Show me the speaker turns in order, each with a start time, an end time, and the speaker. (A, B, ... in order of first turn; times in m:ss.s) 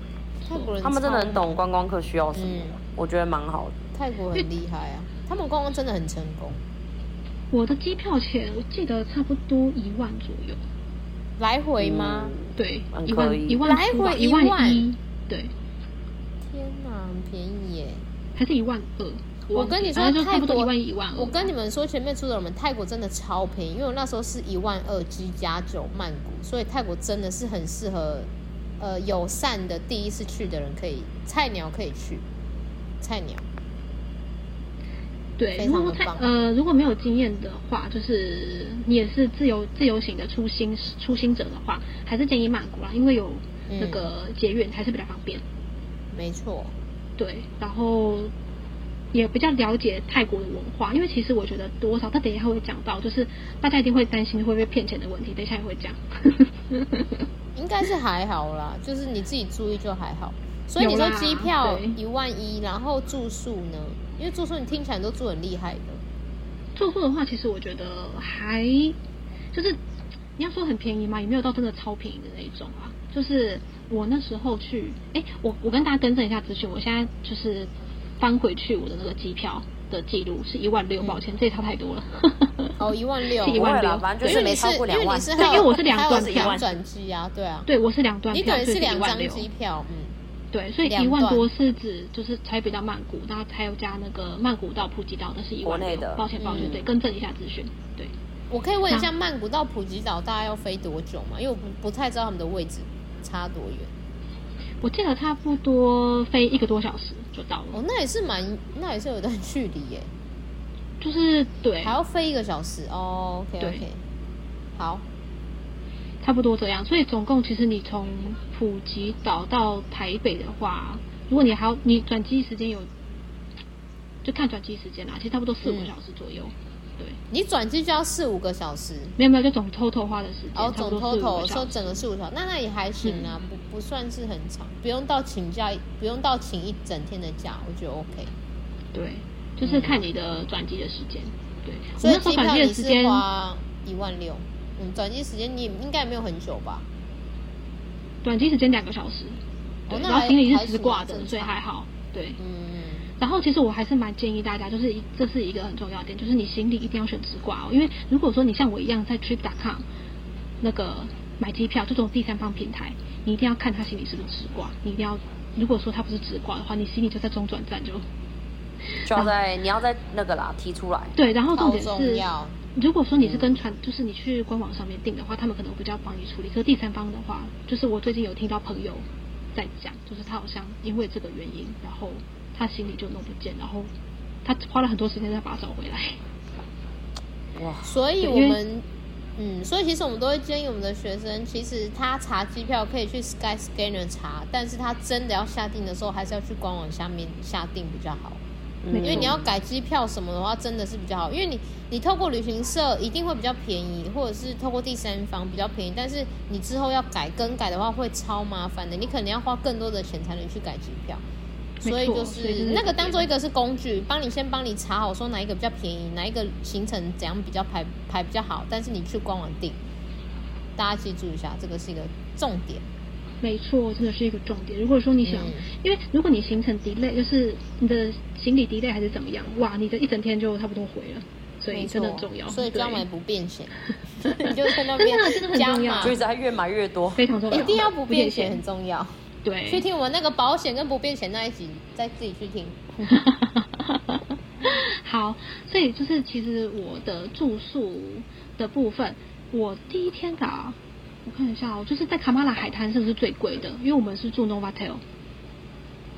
0:00.4-0:01.6 A
0:00.8-0:03.8 B
0:02.3-0:02.8 A
0:03.9-0:06.6 A
0:07.5-0:10.6 C
0:11.4-0:12.3 A
0:11.8-0:13.6 B
0:12.6-0:15.5 C
0:13.6-0:14.8 A
0:16.4-0:18.0 A
0:18.4-0:21.5 C
0:19.5-0:32.2 A
0:33.0-0:33.5 A
0:35.4-0:45.4 C
0:35.6-0:36.3 A
0:43.7-0:44.1 A
0:46.1-0:46.7 A
0:47.2-0:48.3 C
0:49.1-0:57.2 C
0:57.5-1:06.0 A
1:00.8-1:02.0 C
1:06.8-1:09.0 C
1:09.5-1:09.8 C
1:10.4-1:22.8 C
1:22.8-1:23.7 A
1:23.4-1:24.4 C
1:23.4-1:26.7 B
1:24.2-1:27.7 A
1:25.4-1:26.6 C
1:27.7-1:29.5 C
1:28.3-1:30.1 A
1:30.5-1:38.1 C
1:30.8-1:31.5 A
1:35.6-1:36.9 B
1:36.4-1:36.8 A
1:38.5-1:43.9 A
1:44.8-1:47.8 C
1:47.7-1:50.1 A
1:51.0-1:52.0 C
1:51.8-1:54.0 A
1:53.6-1:53.8 C
1:54.8-1:55.0 A
1:56.2-2:02.9 C
2:04.2-2:07.2 C
2:05.6-2:05.9 A
2:07.3-2:09.2 A
2:09.2-2:12.0 C
2:10.5-2:18.3 A
2:13.0-2:13.3 C
2:18.9-2:23.2 C
2:19.6-2:20.0 A
2:22.0-2:26.9 A
2:28.2-2:32.4 C
2:29.9-2:31.5 A
2:32.4-2:33.1 A
2:33.2-2:39.8 C
2:40.6-2:48.0 C
2:49.0-2:51.1 B
2:51.1-3:03.9 C
2:51.5-2:52.6 A
3:04.4-3:06.2 C
3:07.6-3:07.9 B
3:07.8-3:08.8 A
3:08.2-3:08.6 C
3:09.4-3:18.4 A
3:18.8-3:19.4 B
3:18.9-3:19.4 C
3:19.0-3:31.2 A
3:31.8-3:39.8 A
3:31.8-3:33.3 C
3:40.8-3:42.8 A
3:43.4-3:53.0 C
3:45.2-3:45.7 A
3:51.7-3:56.2 A
3:54.4-3:56.2 C
3:56.0-3:57.3 B
3:57.2-3:58.6 C
3:57.5-3:59.1 A
3:59.4-3:59.8 C
3:59.7-4:03.1 A
4:03.0-4:15.0 C